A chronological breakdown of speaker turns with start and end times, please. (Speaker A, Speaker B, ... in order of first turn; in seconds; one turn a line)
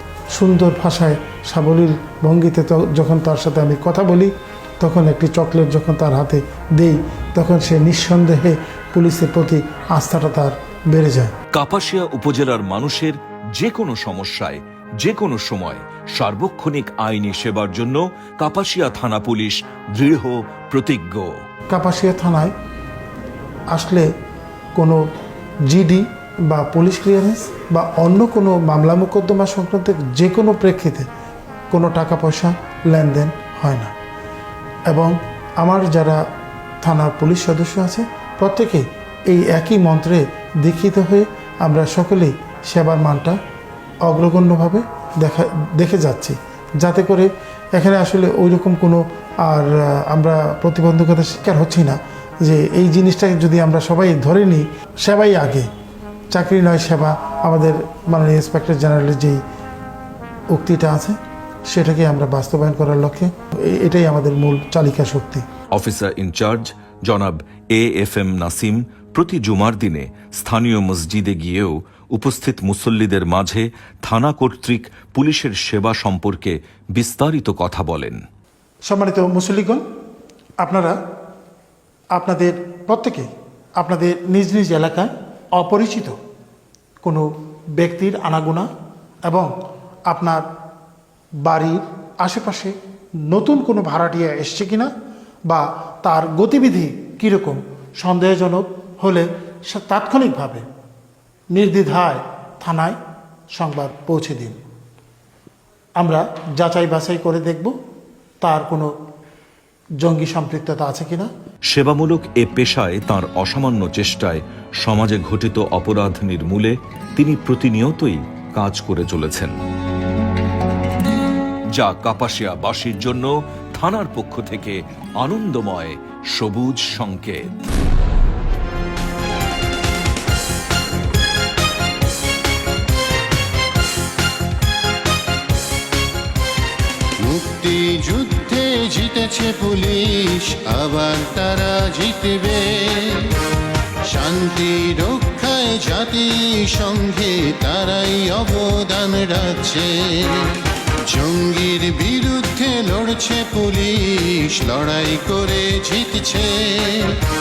Speaker A: 0.3-11.3
Speaker B: 11.5-21.4
Speaker A: 21.7-22.5
Speaker A: 23.7-24.1
Speaker A: 24.7-25.0
Speaker A: 25.7-31.1
Speaker A: 31.7-33.9
Speaker A: 34.9-36.2
Speaker A: 36.8-43.4
Speaker A: 44.0-55.7
Speaker A: 56.3-59.4
Speaker A: 60.5-61.2
Speaker A: 61.7-65.4
Speaker B: 65.7-78.2
Speaker A: 78.9-79.8
Speaker A: 80.6-81.0
Speaker A: 82.1-86.2
Speaker A: 87.0-88.7
Speaker A: 89.2-89.5
Speaker A: 90.1-90.4
Speaker A: 91.4-92.7
Speaker A: 93.3-94.9
Speaker A: 95.5-100.7
Speaker A: 101.5-103.0
Speaker A: 103.5-104.6
Speaker A: 106.0-107.7
Speaker A: 108.4-108.9
Speaker A: 110.0-111.3
Speaker B: 111.7-119.5
Speaker B: 121.7-127.5
Speaker C: 137.2-143.4
Speaker C: 144.0-157.3